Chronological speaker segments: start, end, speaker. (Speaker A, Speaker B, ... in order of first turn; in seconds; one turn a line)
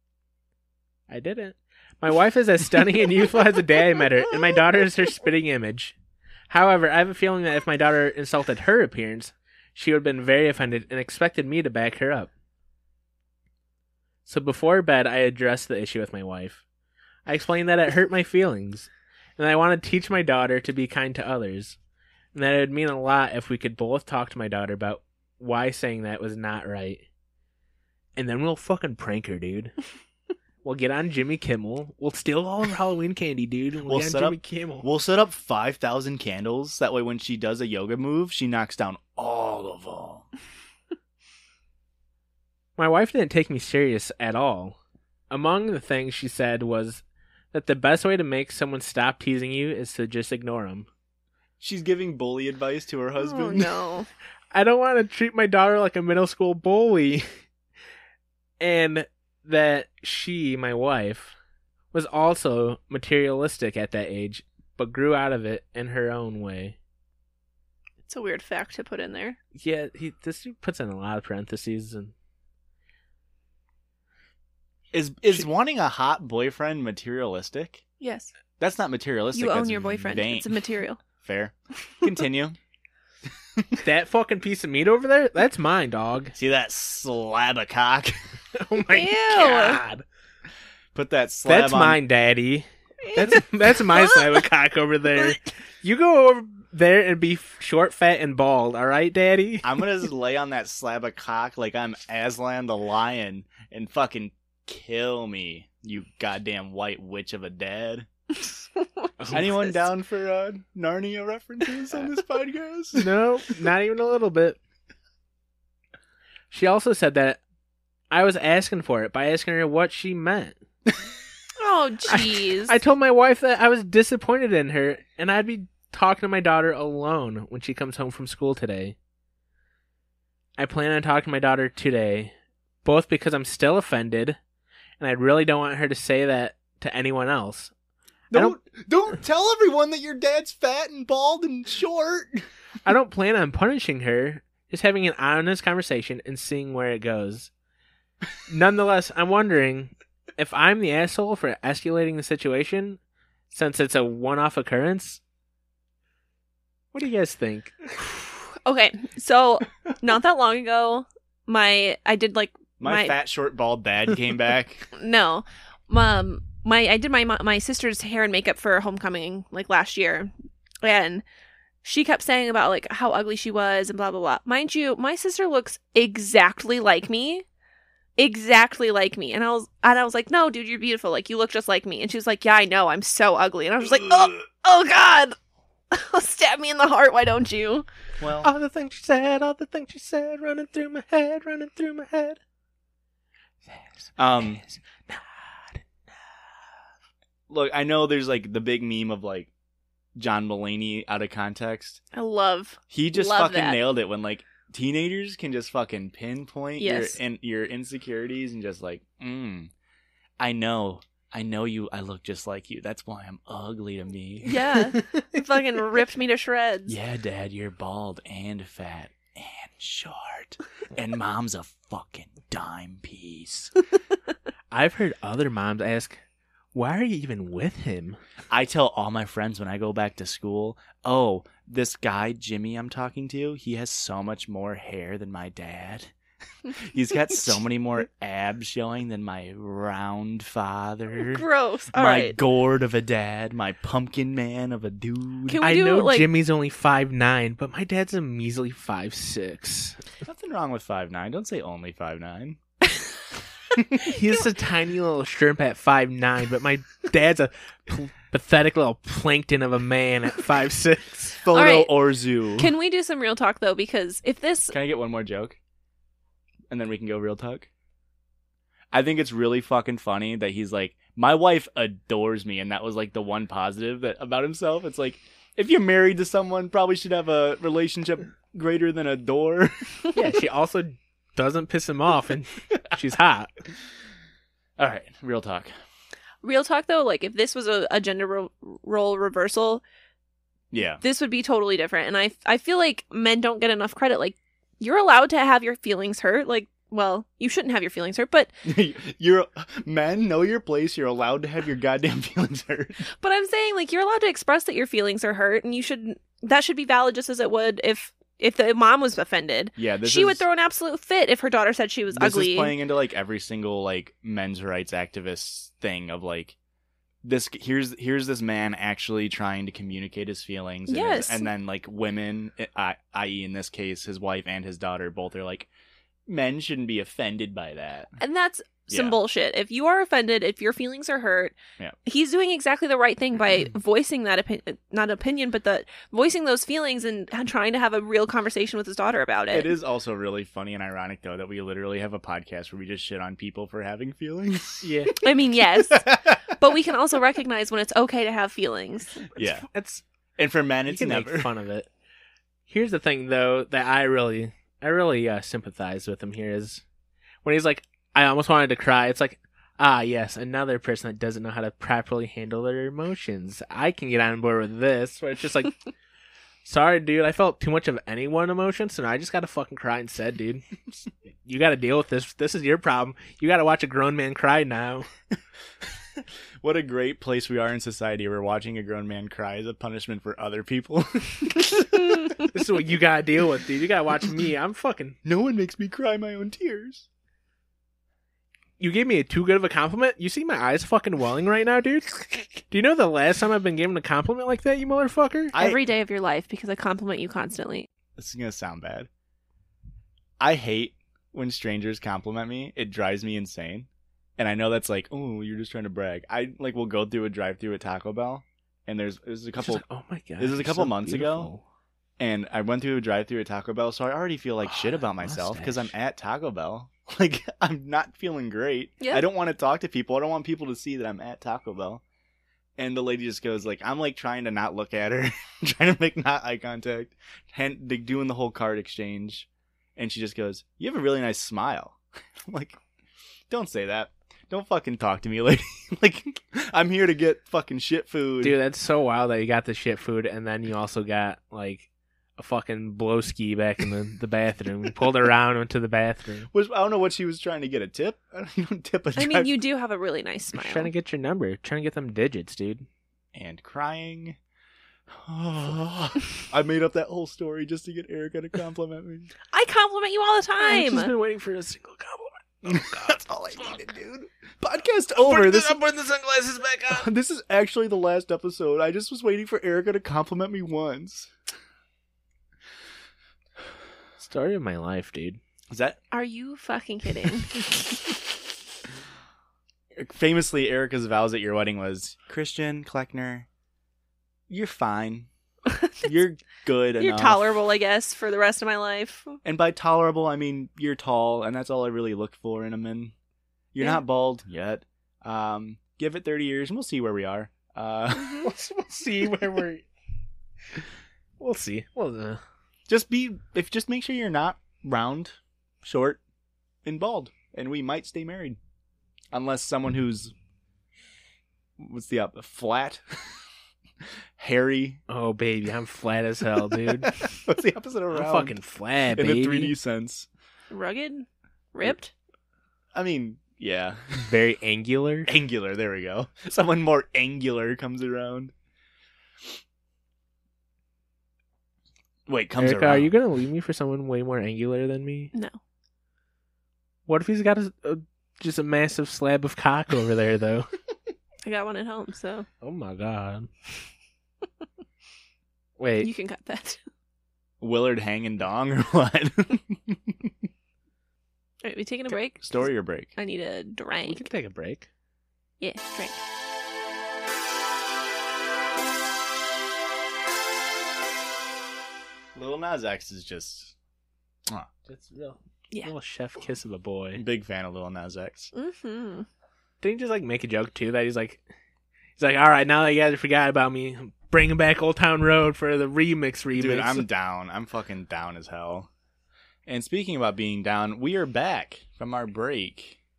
Speaker A: 1.1-6.0
Speaker A: 6.5-12.3
Speaker A: 14.2-16.6
Speaker A: 17.2-21.8
Speaker A: 22.3-27.0
Speaker A: 28.1-29.8
Speaker A: 30.6-34.9
Speaker B: 33.9-40.2
Speaker A: 42.8-44.8
Speaker A: 45.3-50.9
Speaker B: 51.6-53.8
Speaker C: 53.2-54.1
Speaker A: 54.5-57.3
Speaker A: 58.6-61.3
Speaker A: 61.9-66.8
Speaker C: 68.1-69.4
Speaker A: 69.5-72.1
Speaker B: 74.9-77.8
Speaker C: 78.0-78.3
Speaker B: 78.6-80.5
Speaker C: 79.3-81.0
Speaker B: 81.1-82.6
Speaker A: 83.8-86.3
Speaker B: 86.3-88.2
Speaker A: 88.5-90.0
Speaker C: 88.9-89.8
Speaker B: 90.9-92.0
Speaker A: 91.4-99.8
Speaker C: 93.0-94.4
Speaker B: 99.6-108.1
Speaker C: 108.8-109.7
Speaker A: 109.2-109.5
Speaker B: 109.3-113.1
Speaker A: 112.9-114.6
Speaker A: 116.5-117.4
Speaker A: 118.1-120.5
Speaker C: 121.6-122.8
Speaker A: 122.1-128.9
Speaker A: 130.6-132.3
Speaker A: 132.8-134.4
Speaker A: 135.0-137.7
Speaker B: 138.3-142.5
Speaker A: 142.8-147.5
Speaker A: 148.5-153.0
Speaker A: 153.5-155.2
Speaker A: 156.9-157.8
Speaker C: 158.5-163.2
Speaker B: 162.8-164.9
Speaker C: 164.9-171.2
Speaker C: 171.8-177.4
Speaker C: 178.2-185.3
Speaker C: 185.9-187.8
Speaker B: 188.2-188.5
Speaker A: 188.4-192.4
Speaker A: 193.7-196.3
Speaker B: 194.2-194.6
Speaker B: 197.5-199.5
Speaker B: 200.2-202.0
Speaker C: 202.1-203.8
Speaker B: 202.9-209.7
Speaker C: 206.8-207.2
Speaker B: 210.4-214.8
Speaker C: 214.4-217.0
Speaker B: 216.9-223.7
Speaker A: 224.7-226.2
Speaker A: 226.7-228.2
Speaker B: 228.5-236.1
Speaker B: 236.8-245.6
Speaker C: 241.1-242.4
Speaker C: 245.4-246.3
Speaker A: 245.6-250.0
Speaker B: 250.2-252.6
Speaker B: 253.8-254.1
Speaker A: 254.0-261.4
Speaker B: 261.4-262.7
Speaker C: 261.5-261.9
Speaker C: 262.6-264.7
Speaker B: 264.7-265.6
Speaker B: 266.7-267.7
Speaker B: 268.9-280.1
Speaker A: 280.1-283.5
Speaker B: 284.8-285.7
Speaker C: 286.4-289.8
Speaker B: 290.7-291.0
Speaker C: 291.0-298.5
Speaker B: 298.6-303.1
Speaker C: 303.1-312.7
Speaker B: 309.8-310.4
Speaker B: 312.1-316.5
Speaker B: 317.2-325.7
Speaker C: 320.9-321.5
Speaker B: 326.3-328.1
Speaker C: 328.2-339.7
Speaker B: 328.9-329.2
Speaker B: 339.5-345.1
Speaker A: 344.8-345.1
Speaker C: 345.2-349.1
Speaker B: 345.9-346.4
Speaker B: 349.3-349.6
Speaker A: 349.3-350.0
Speaker B: 350.4-351.5
Speaker A: 350.9-351.9
Speaker A: 352.7-356.8
Speaker A: 357.4-365.8
Speaker A: 366.6-370.6
Speaker A: 371.4-375.1
Speaker B: 376.2-382.5
Speaker A: 382.5-385.2
Speaker B: 385.2-387.1
Speaker A: 388.8-395.5
Speaker B: 395.5-395.8
Speaker C: 395.5-397.9
Speaker B: 398.2-399.1
Speaker B: 400.4-409.8
Speaker A: 409.6-411.6
Speaker B: 410.4-411.5
Speaker B: 412.2-422.0
Speaker A: 414.6-415.9
Speaker B: 422.8-432.8
Speaker B: 433.5-438.6
Speaker A: 438.4-446.5
Speaker B: 446.5-449.5
Speaker C: 449.2-450.9
Speaker A: 450.5-452.9
Speaker B: 453.3-454.4
Speaker B: 455.1-459.3
Speaker C: 459.5-461.1
Speaker A: 460.6-463.7
Speaker B: 462.6-465.8
Speaker A: 465.2-467.1
Speaker B: 466.9-471.3
Speaker A: 474.2-475.4
Speaker B: 475.7-476.0
Speaker C: 476.1-477.6
Speaker B: 480.0-483.5
Speaker B: 484.5-485.3
Speaker B: 486.0-487.5
Speaker C: 487.0-489.4
Speaker B: 489.4-493.1
Speaker B: 493.7-498.5
Speaker C: 498.1-498.5
Speaker A: 498.4-499.9
Speaker A: 501.4-502.4
Speaker B: 502.9-506.2
Speaker B: 506.8-508.6
Speaker B: 509.3-510.3
Speaker B: 511.8-513.2
Speaker B: 514.4-515.0
Speaker A: 515.1-517.1
Speaker B: 516.9-518.5
Speaker A: 518.1-519.7
Speaker B: 519.1-520.3
Speaker C: 520.7-522.1
Speaker B: 522.9-524.3
Speaker A: 524.2-525.3
Speaker B: 525.3-528.5
Speaker B: 532.3-533.1
Speaker A: 532.6-535.3
Speaker A: 537.1-540.7
Speaker C: 541.5-542.5
Speaker A: 542.6-543.5
Speaker A: 545.8-546.1
Speaker C: 546.0-546.8
Speaker B: 547.6-550.3
Speaker C: 551.6-552.6
Speaker B: 552.1-553.1
Speaker C: 553.1-554.2
Speaker A: 554.1-554.9
Speaker C: 555.6-556.2
Speaker B: 562.3-563.7
Speaker A: 564.9-567.2
Speaker B: 567.1-568.5
Speaker C: 568.5-569.2
Speaker A: 569.8-571.4
Speaker A: 572.2-577.0
Speaker B: 576.5-578.9
Speaker B: 579.6-583.0